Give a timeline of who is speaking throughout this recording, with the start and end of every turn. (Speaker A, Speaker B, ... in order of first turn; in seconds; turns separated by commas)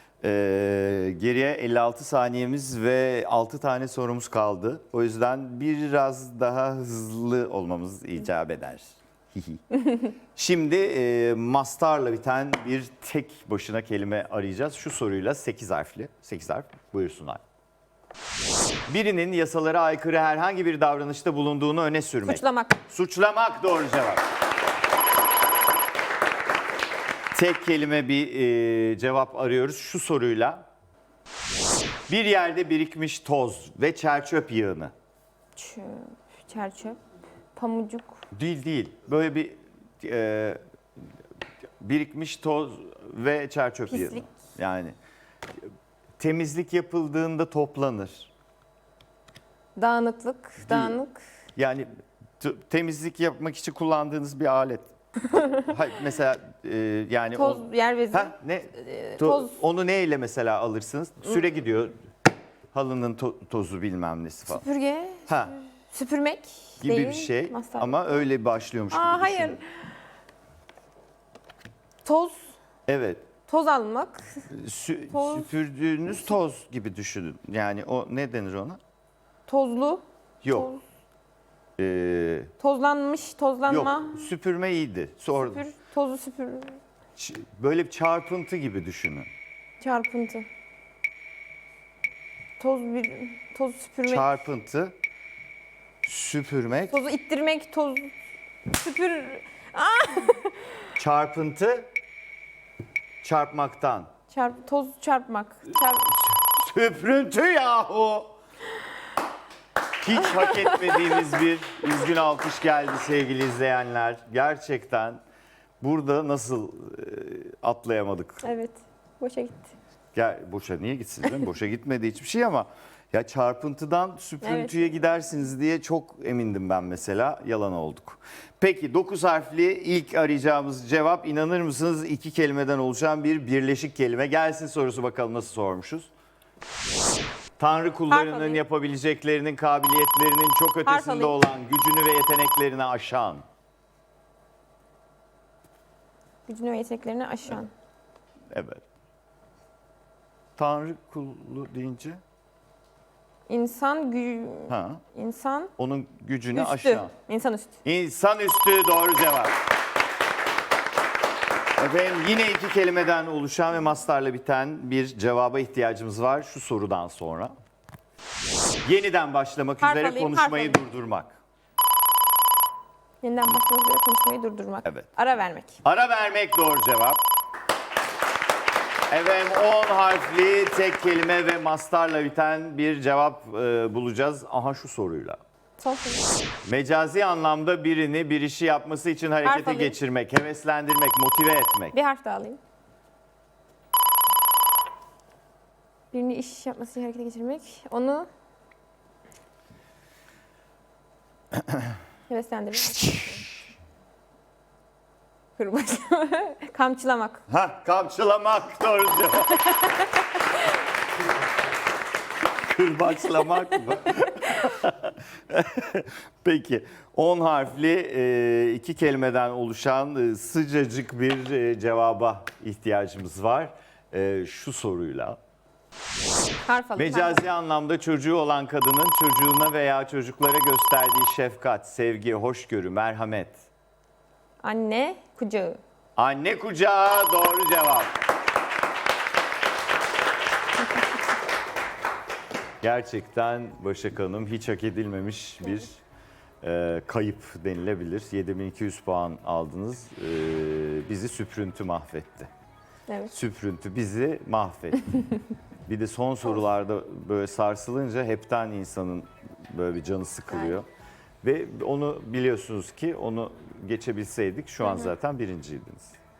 Speaker A: 0.2-9.6, Speaker A: 10.3-17.4, Speaker A: 18.9-24.2, Speaker B: 22.2-22.8, Speaker A: 27.3-30.6, Speaker A: 32.1-34.9, Speaker B: 35.6-37.0, Speaker B: 37.6-38.2, Speaker A: 38.3-40.6, Speaker A: 41.8-44.9, Speaker B: 43.9-44.2, Speaker A: 46.2-48.3, Speaker B: 49.8-51.2, Speaker A: 50.6-51.0, Speaker A: 51.5-51.9, Speaker A: 52.4-62.0, Speaker B: 57.3-59.5, Speaker A: 62.7-64.6, Speaker B: 64.5-65.3, Speaker A: 65.3-65.5, Speaker B: 65.9-68.1, Speaker A: 66.8-69.6, Speaker B: 68.9-69.9, Speaker B: 72.0-72.4, Speaker A: 72.9-73.3, Speaker B: 73.5-74.5, Speaker A: 74.5-78.8, Speaker B: 75.1-75.5, Speaker B: 79.5-80.8, Speaker A: 80.4-80.8, Speaker A: 81.8-82.5, Speaker B: 82.6-84.3, Speaker A: 83.7-85.6, Speaker B: 85.3-86.8, Speaker A: 87.2-89.3, Speaker B: 89.8-90.5, Speaker B: 92.6-94.4, Speaker A: 94.0-94.9, Speaker A: 96.0-97.0, Speaker B: 96.9-98.1, Speaker B: 98.7-100.7, Speaker A: 101.0-101.9, Speaker A: 103.2-104.1, Speaker B: 104.3-106.2, Speaker A: 106.2-108.3, Speaker A: 110.0-115.2, Speaker B: 110.4-111.1, Speaker A: 115.8-118.5, Speaker B: 118.4-119.7, Speaker A: 120.1-136.1, Speaker B: 124.4-125.0, Speaker A: 137.6-143.4, Speaker B: 138.1-138.6, Speaker B: 140.9-141.4, Speaker B: 146.5-147.7, Speaker A: 148.5-148.8, Speaker A: 150.6-152.2, Speaker B: 153.5-155.7, Speaker A: 154.7-155.0, Speaker A: 155.8-157.1, Speaker B: 156.5-157.7, Speaker A: 157.8-159.5, Speaker A: 161.8-167.5, Speaker A: 168.8-171.4, Speaker B: 169.8-170.8, Speaker B: 173.2-175.8, Speaker A: 175.8-177.2, Speaker A: 179.1-185.4, Speaker B: 185.8-186.2, Speaker A: 186.6-191.9, Speaker B: 189.4-190.0, Speaker B: 191.9-192.6, Speaker B: 196.1-198.3, Speaker B: 202.3-203.5, Speaker B: 205.6-207.4, Speaker A: 207.5-209.6, Speaker A: 212.7-225.4, Speaker B: 226.7-227.4, Speaker A: 226.9-233.6, Speaker B: 234.6-235.8, Speaker A: 236.2-238.1, Speaker A: 242.8-246.0, Speaker A: 246.6-252.5, Speaker A: 253.3-255.1, Speaker A: 255.9-260.9, Speaker A: 261.4-266.1, Speaker B: 264.8-265.1